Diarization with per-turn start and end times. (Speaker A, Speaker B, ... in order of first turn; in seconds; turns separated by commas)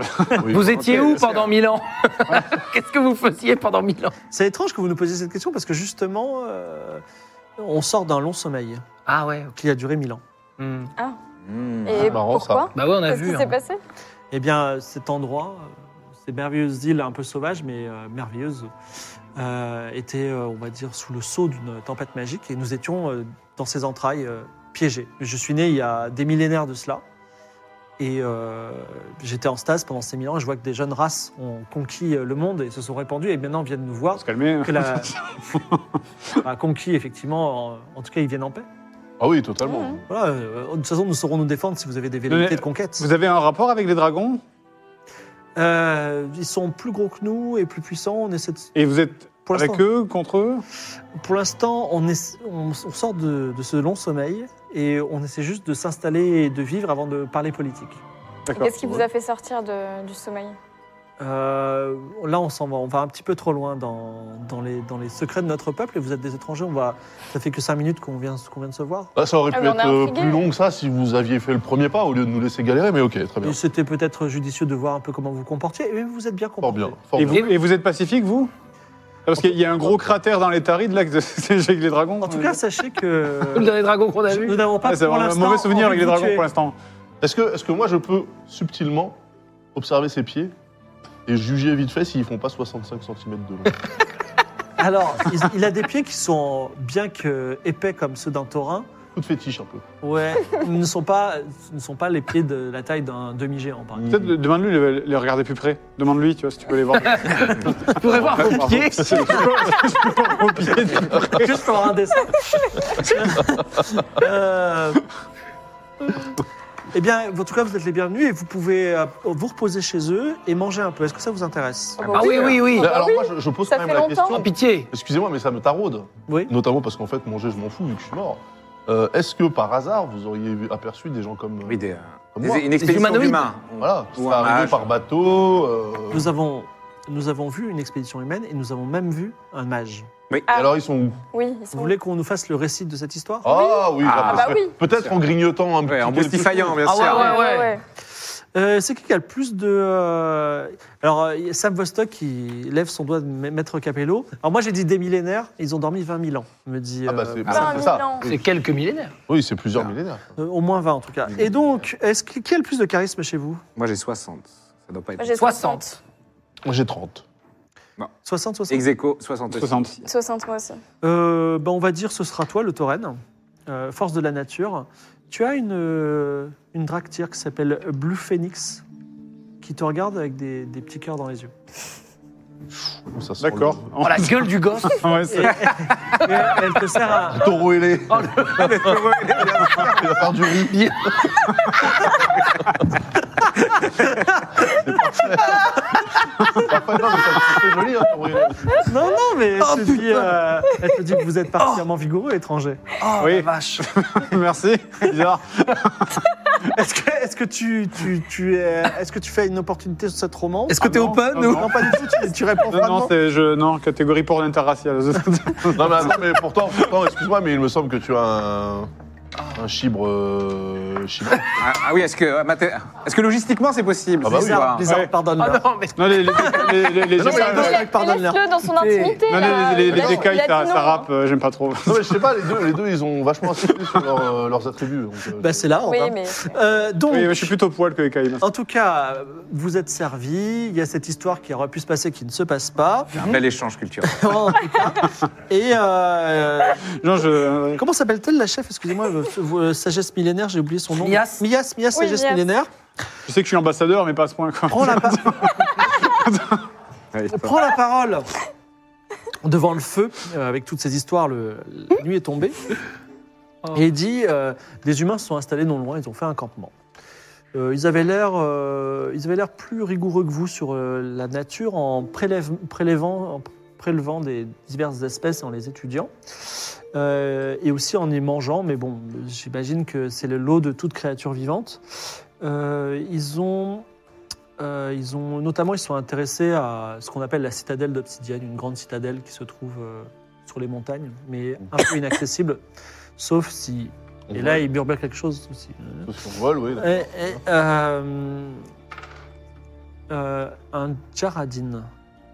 Speaker A: 0.1-0.4, Speaker B: 0.4-0.8, Speaker C: 0.5-4.2, Speaker D: 0.7-1.5, Speaker E: 4.3-7.0, Speaker E: 7.6-8.8, Speaker C: 9.1-9.5, Speaker E: 9.5-10.2, Speaker C: 10.6-10.9, Speaker D: 11.5-12.2, Speaker F: 11.8-13.8, Speaker B: 11.9-12.7, Speaker C: 12.7-13.6, Speaker E: 14.3-18.7, Speaker E: 19.4-27.0, Speaker E: 28.0-35.1, Speaker A: 34.2-35.8, Speaker E: 36.4-38.6, Speaker B: 39.2-40.0, Speaker F: 39.6-40.0, Speaker E: 40.1-43.1, Speaker A: 42.3-44.4, Speaker E: 45.5-48.7, Speaker A: 48.7-50.6, Speaker E: 49.5-49.8, Speaker E: 51.2-58.0, Speaker A: 58.5-59.0, Speaker F: 58.5-60.6, Speaker E: 61.2-69.1, Speaker B: 69.1-73.6, Speaker F: 69.5-70.4, Speaker E: 73.4-77.0, Speaker B: 76.6-77.5, Speaker A: 77.2-78.5, Speaker A: 79.3-82.6, Speaker E: 82.2-83.7, Speaker C: 83.5-84.7, Speaker E: 84.3-86.5, Speaker A: 84.8-86.7, Speaker B: 87.2-89.2, Speaker B: 89.7-90.5, Speaker B: 91.3-93.8, Speaker E: 94.8-98.9, Speaker B: 99.1-99.8, Speaker E: 100.0-104.2, Speaker B: 104.0-104.3, Speaker A: 104.1-111.7, Speaker C: 107.0-109.8, Speaker E: 111.2-115.0, Speaker E: 116.9-122.1, Speaker F: 122.0-124.4, Speaker D: 122.0-122.6, Speaker C: 122.1-123.0, Speaker B: 122.8-131.8, Speaker C: 124.3-124.9, Speaker D: 131.7-134.8, Speaker B: 132.3-133.0, Speaker C: 132.8-133.5, Speaker B: 133.7-136.3, Speaker E: 136.1-140.1, Speaker F: 140.5-140.7, Speaker B: 140.5-141.2, Speaker F: 141.3-141.9, Speaker E: 141.7-143.5, Speaker B: 143.4-146.9, Speaker F: 143.4-144.7, Speaker D: 144.0-145.1, Speaker D: 145.8-147.4, Speaker C: 146.8-147.8, Speaker F: 147.1-147.8, Speaker E: 148.5-157.8, Speaker B: 157.1-158.4, Speaker D: 157.4-157.9, Speaker F: 157.5-158.3, Speaker C: 158.2-159.1, Speaker B: 159.3-160.3, Speaker E: 160.4-163.6, Speaker D: 163.8-165.5, Speaker F: 165.2-166.0, Speaker C: 165.3-165.9, Speaker B: 166.6-167.2, Speaker E: 168.2-168.9, Speaker D: 168.7-169.9, Speaker A: 169.5-170.0, Speaker F: 170.0-170.8, Speaker E: 171.0-178.8, Speaker E: 179.6-181.5, Speaker B: 183.1-183.9, Speaker A: 183.4-185.8, Speaker C: 184.0-185.3, Speaker E: 185.3-187.5, Speaker B: 187.1-191.3, Speaker C: 188.1-188.9, Speaker D: 188.5-190.2, Speaker C: 190.5-191.5, Speaker E: 193.8-194.4, Speaker B: 194.7-195.6, Speaker B: 196.5-199.0, Speaker E: 198.8-203.9, Speaker C: 199.6-200.4, Speaker C: 203.0-203.4, Speaker A: 203.2-206.2, Speaker E: 206.7-213.1, Speaker A: 210.7-212.0, Speaker C: 210.8-211.6, Speaker A: 212.7-216.2, Speaker B: 215.7-218.9, Speaker B: 219.5-221.6, Speaker D: 221.6-224.9, Speaker B: 224.2-224.8, Speaker E: 224.2-225.6, Speaker A: 224.8-225.1, Speaker C: 225.3-226.8, Speaker A: 225.9-227.9, Speaker E: 226.4-228.5, Speaker B: 227.2-227.7, Speaker F: 227.2-231.1, Speaker C: 228.7-229.5, Speaker A: 229.3-232.3, Speaker B: 229.9-230.3, Speaker B: 231.8-235.7, Speaker E: 235.4-237.5, Speaker F: 235.8-236.4, Speaker A: 237.1-238.4, Speaker E: 238.4-243.2, Speaker D: 243.1-244.5, Speaker E: 244.0-246.8, Speaker A: 247.0-247.8, Speaker E: 247.8-252.7, Speaker C: 250.9-251.4, Speaker F: 251.9-252.4, Speaker A: 253.3-256.6, Speaker E: 254.7-255.7, Speaker D: 257.1-257.6, Speaker E: 257.3-258.3, Speaker E: 259.4-262.8, Speaker E: 263.7-266.7, Speaker E: 267.5-276.1, Speaker E: 276.9-281.8, Speaker E: 282.4-283.9, Speaker E: 284.6-292.6, Speaker E: 293.2-296.1, Speaker B: 294.3-294.6, Speaker B: 296.1-297.4, Speaker E: 296.7-298.6, Speaker E: 300.1-301.9